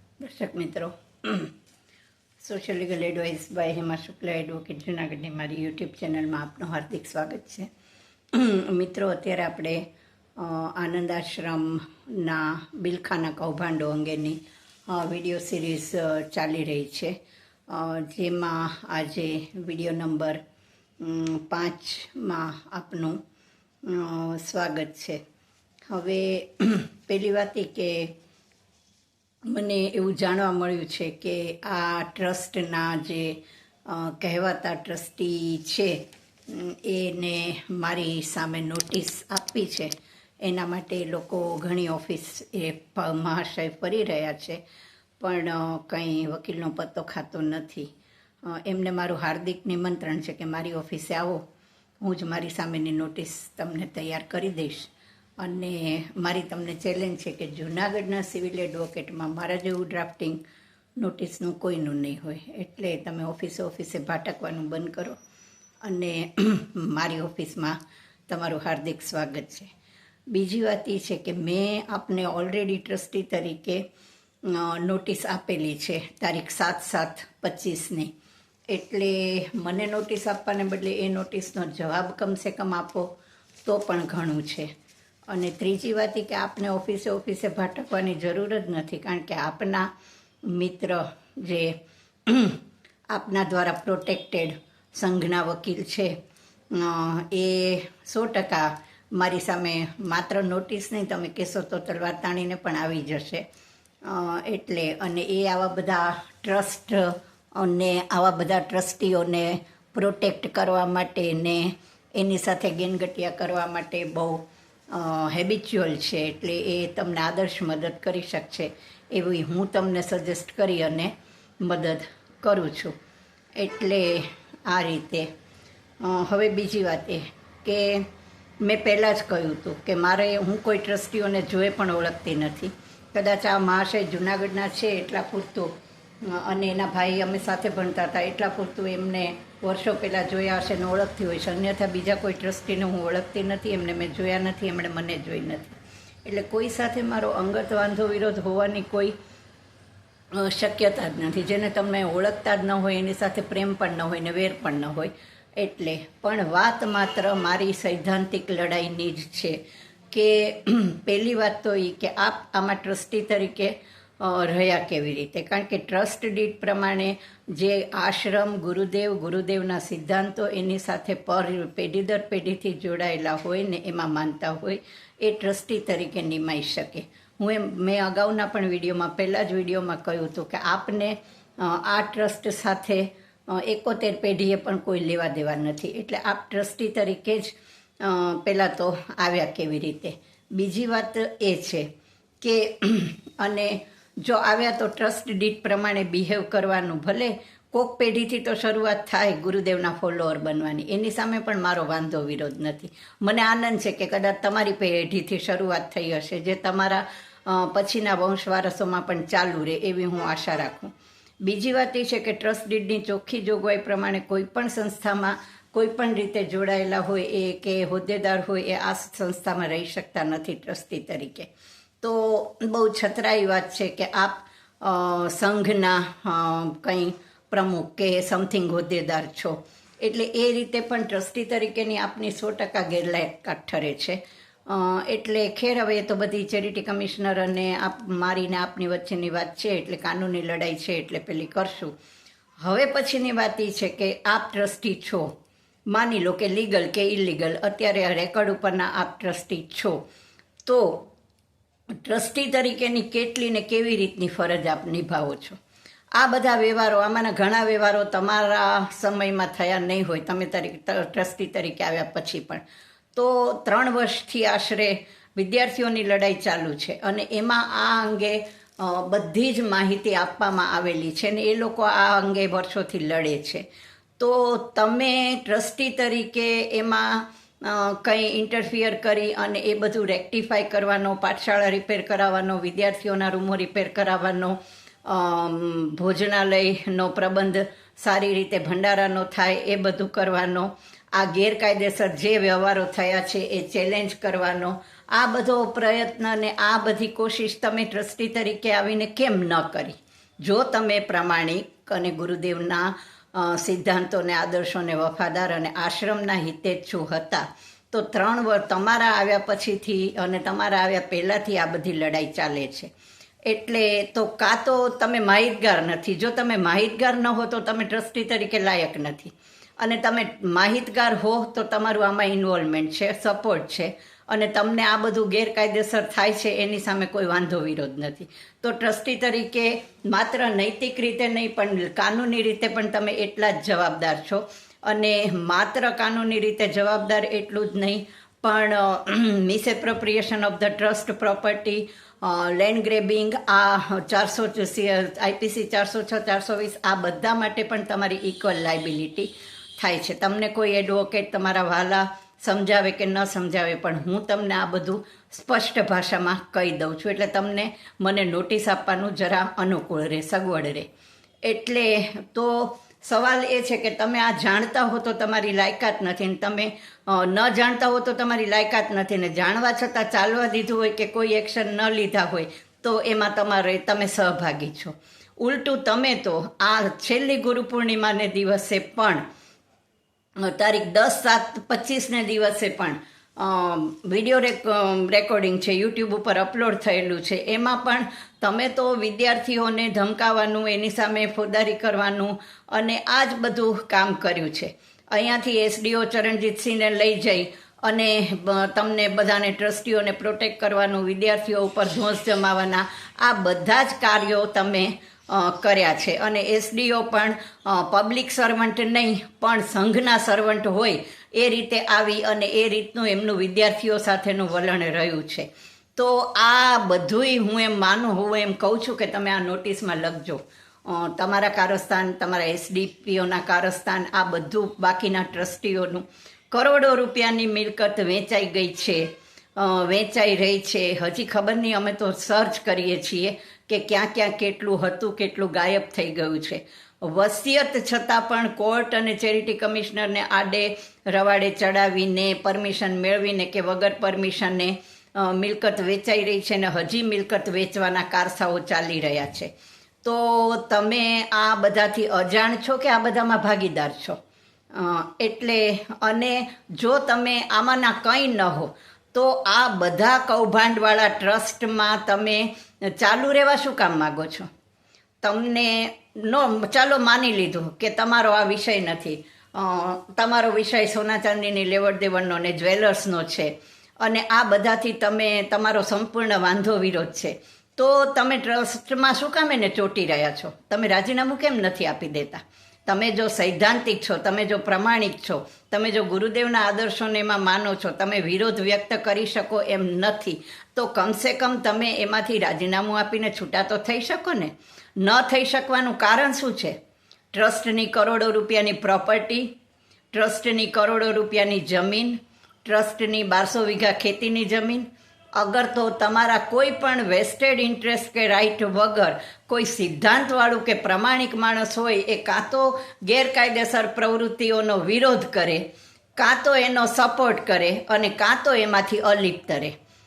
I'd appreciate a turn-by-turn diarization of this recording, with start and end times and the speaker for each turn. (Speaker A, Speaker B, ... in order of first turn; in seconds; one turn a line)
Speaker A: 0.2-1.5
Speaker A: 2.4-7.7
Speaker A: 8.3-9.8
Speaker A: 10.4-17.1
Speaker A: 17.7-20.4
Speaker A: 21.0-23.2
Speaker A: 23.8-25.2
Speaker A: 25.9-28.1
Speaker A: 29.5-44.6
Speaker A: 45.2-47.9
Speaker A: 48.4-51.4
Speaker A: 52.0-60.4
Speaker A: 61.0-65.2
Speaker A: 65.8-67.8
Speaker A: 68.3-69.7
Speaker A: 70.3-73.8
Speaker A: 74.4-78.1
Speaker A: 78.7-83.1
Speaker A: 83.6-84.7
Speaker A: 85.3-89.9
Speaker A: 90.5-91.7
Speaker A: 92.2-92.6
Speaker A: 93.1-96.1
Speaker A: 96.7-103.4
Speaker A: 104.0-122.9
Speaker A: 123.6-125.3
Speaker A: 126.0-128.0
Speaker A: 128.6-135.7
Speaker A: 136.2-149.1
Speaker A: 150.3-159.6
Speaker A: 160.1-191.9
Speaker A: 192.4-210.9
Speaker A: 211.4-221.5
Speaker A: 222.0-241.9
Speaker A: 242.6-245.3
Speaker A: 245.9-250.0
Speaker A: 250.7-251.0
Speaker A: 252.0-255.6
Speaker A: 256.1-262.6
Speaker A: 263.1-273.6
Speaker A: 274.2-312.9
Speaker A: 313.4-360.9
Speaker A: 361.4-379.2
Speaker A: 380.4-449.5
Speaker A: 450.0-454.2
Speaker A: 454.7-464.5
Speaker A: 465.2-496.7
Speaker A: 497.3-499.5
Speaker A: 500.1-504.9
Speaker A: 505.4-515.6
Speaker A: 516.2-519.7